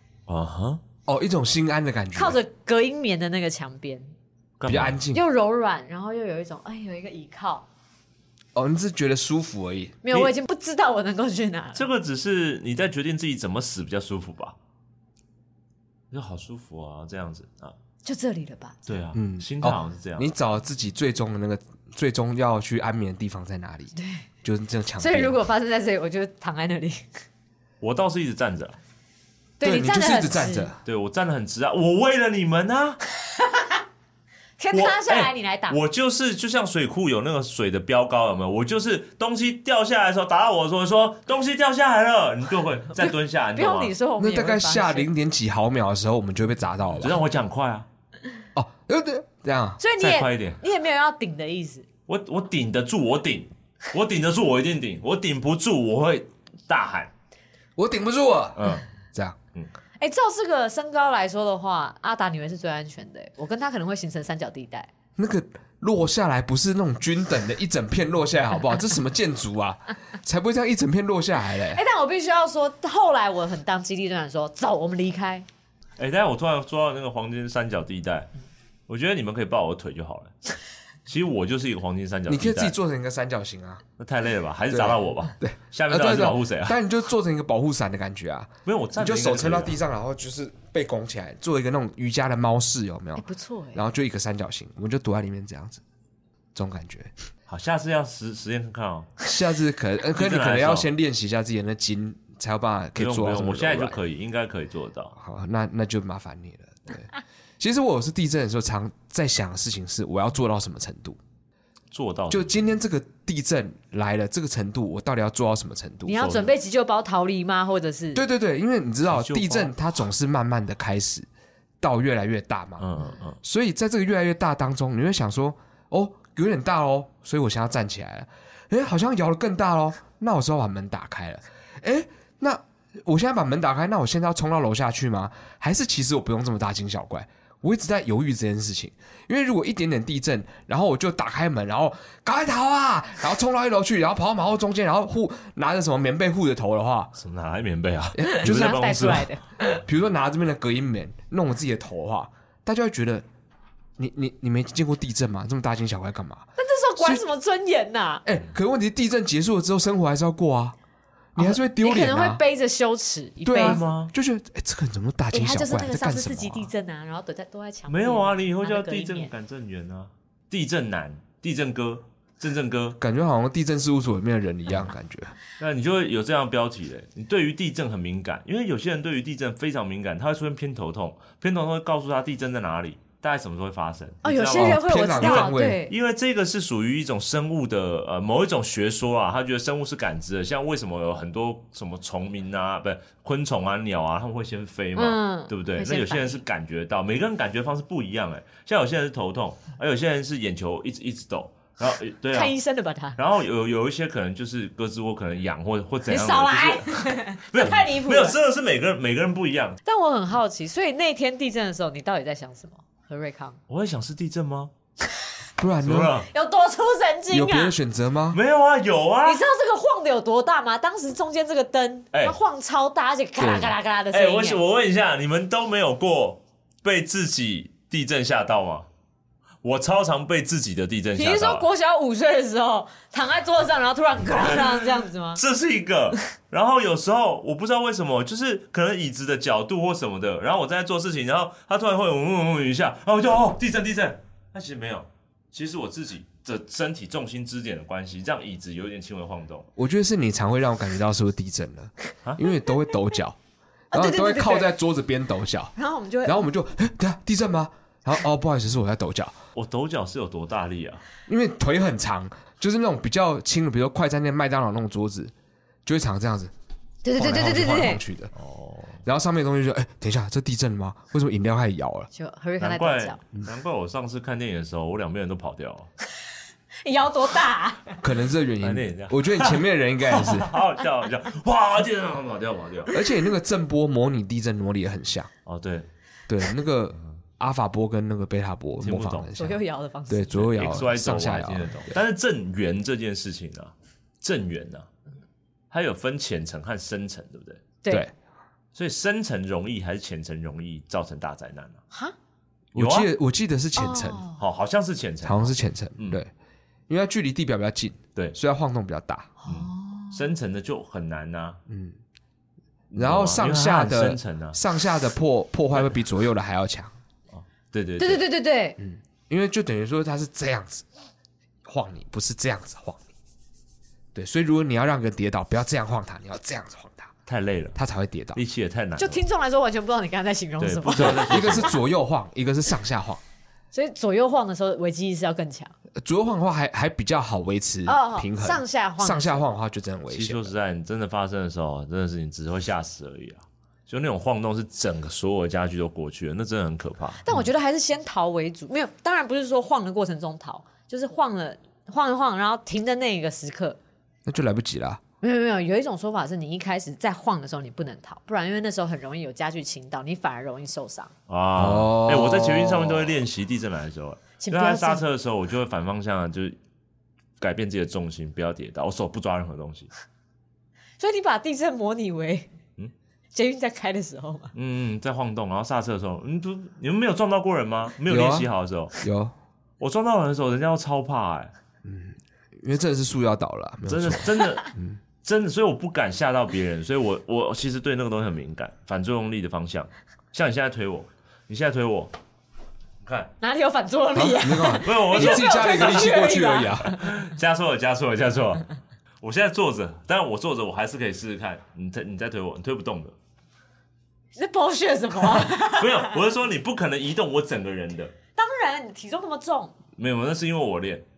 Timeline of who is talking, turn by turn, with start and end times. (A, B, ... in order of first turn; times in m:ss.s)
0:00.3-0:00.8 A
0:01.1-0:02.4 B
0:02.1-0:04.1 C
0:04.6-0:05.0 A
0:04.7-0:05.2 B
0:05.1-0:07.7 C
0:08.5-0:10.3 B
0:10.0-0:11.8 C
0:11.8-0:14.6 A
0:16.1-0:17.7 A
0:18.0-0:18.9 C
0:18.9-0:20.3 A
0:19.1-0:25.4 B
0:24.0-0:24.2 C
0:25.0-0:27.0 C
0:27.8-0:28.8 A
0:29.6-0:30.7 C
0:29.6-0:30.8 B
0:30.8-0:33.0 A
0:33.3-0:33.8 C
0:34.6-0:35.8 C
0:34.7-0:43.9 A
0:42.9-0:45.1 C
0:44.2-0:47.2 B
0:47.0-0:47.8 A
0:48.5-0:49.8 B
0:49.8-0:51.8 C
0:50.0-0:50.6 A
0:52.1-0:57.1 A
0:57.8-0:59.4 B
0:58.6-0:58.8 A
1:00.0-1:04.9 C
1:05.2-1:11.8 B
1:11.7-1:15.4 C
1:16.0-1:18.3 A
1:18.9-1:20.3 A
1:21.0-1:22.7 A
1:22.3-1:23.8 B
1:24.0-1:26.8 A
1:24.7-1:35.8 B
1:28.6-1:29.8 A
1:33.2-1:33.8 C
1:36.5-1:37.1 B
1:37.5-1:39.2 A
1:39.2-1:44.0 B
1:40.1-1:40.9 A
1:43.0-1:45.1 A
1:45.2-1:51.2 B
1:51.9-1:52.6 A
1:52.3-1:56.5 B
1:56.0-1:58.2 C
1:58.1-2:01.3 B
1:59.1-1:59.8 A
2:01.8-2:27.1 B
2:02.8-2:03.4 A
2:27.2-2:29.3 A
2:28.2-2:28.9 B
2:28.2-2:29.8 C
2:29.8-2:33.2 B
2:34.0-2:36.4 B
2:36.6-2:38.2 C
2:38.2-2:40.8 B
2:41.3-2:42.4 B
2:41.4-2:43.8 C
2:43.4-2:46.7 B
2:43.5-2:44.1 A
2:45.3-2:49.3 C
2:47.9-2:53.0 A
2:53.0-2:55.3 B
2:55.6-3:22.5 A
3:04.2-3:05.9 C
3:04.4-3:05.8 B
3:15.0-3:16.4 C
3:22.3-3:23.2 C
3:23.2-3:29.8 A
3:26.1-3:28.4 C
3:29.8-3:33.6 C
3:33.7-3:34.7 A
3:35.6-3:36.2 B
3:35.8-3:36.3 A
3:36.3-3:37.7 C
3:37.3-3:38.4 B
3:38.3-3:39.4 A
3:39.2-3:44.6 C
3:43.4-3:43.7 B
3:44.1-3:48.9 A
3:49.6-3:51.6 A
3:51.2-3:55.4 C
3:54.3-4:09.7 A
4:09.8-4:13.4 B
4:13.9-4:14.7 C
4:13.9-4:15.7 B
4:15.8-4:16.4 C
4:16.2-4:19.4 B
4:19.6-4:21.0 A
4:21.3-4:25.3 B
4:25.8-4:26.5 B
4:27.0-4:28.0 C
4:27.2-4:28.3 B
4:28.3-4:29.0 A
4:29.0-4:32.1 B
4:32.1-4:33.2 C
4:32.6-4:35.9 A
4:36.8-4:38.0 C
4:38.0-4:40.5 B
4:38.6-4:42.9 A
4:42.9-4:45.3 B
4:45.4-4:45.9 A
4:46.3-4:51.9 B
4:48.8-4:49.3 A
4:49.4-4:50.5 C
4:50.4-4:54.9 A
4:55.7-4:57.6 A
4:57.8-4:58.1 C
4:58.7-5:01.8 A
5:02.7-5:03.1 A
5:02.7-5:04.2 B
5:03.8-5:04.4 C
5:04.4-5:06.2 A
5:05.2-5:06.3 B
5:06.9-5:09.3 B
5:09.4-5:10.2 C
5:09.5-5:11.6 A
5:11.7-5:12.0 B
5:12.9-5:14.6 A
5:13.0-5:16.9 B
5:17.3-5:18.2 A
5:18.0-5:18.8 C
5:18.8-5:20.8 B
5:21.6-5:23.0 B
5:24.1-5:27.1 B
5:27.3-5:27.8 A
5:27.7-5:28.4 B
5:28.3-5:29.2 A
5:29.0-5:31.7 C
5:30.6-5:31.7 A
5:30.9-5:33.2 B
5:33.7-5:35.7 C
5:36.0-5:40.5 B
5:37.8-5:39.5 C
5:40.1-5:47.2 A
5:47.2-5:53.8 C
5:54.2-5:55.0 B
5:55.2-6:01.1 C
6:01.3-6:06.6 A
6:01.6-6:03.2 B
6:04.4-6:05.0 C
6:07.4-6:09.9 A
6:11.0-6:12.5 C
6:13.3-6:14.5 C
6:14.5-6:18.9 A
6:18.1-6:18.5 B
6:19.0-6:19.3 B
6:19.8-6:21.5 A
6:21.8-6:25.0 B
6:23.9-6:24.7 A
6:25.2-6:32.1 A
6:33.0-6:33.3 A
6:33.4-6:37.0 C
6:34.1-6:37.0 B
6:34.8-6:36.2 A
6:37.0-6:38.7 A
6:39.2-6:43.1 A
6:44.4-6:46.1 C
6:45.3-6:48.1 A
6:48.4-6:49.7 C
6:50.0-6:51.0 A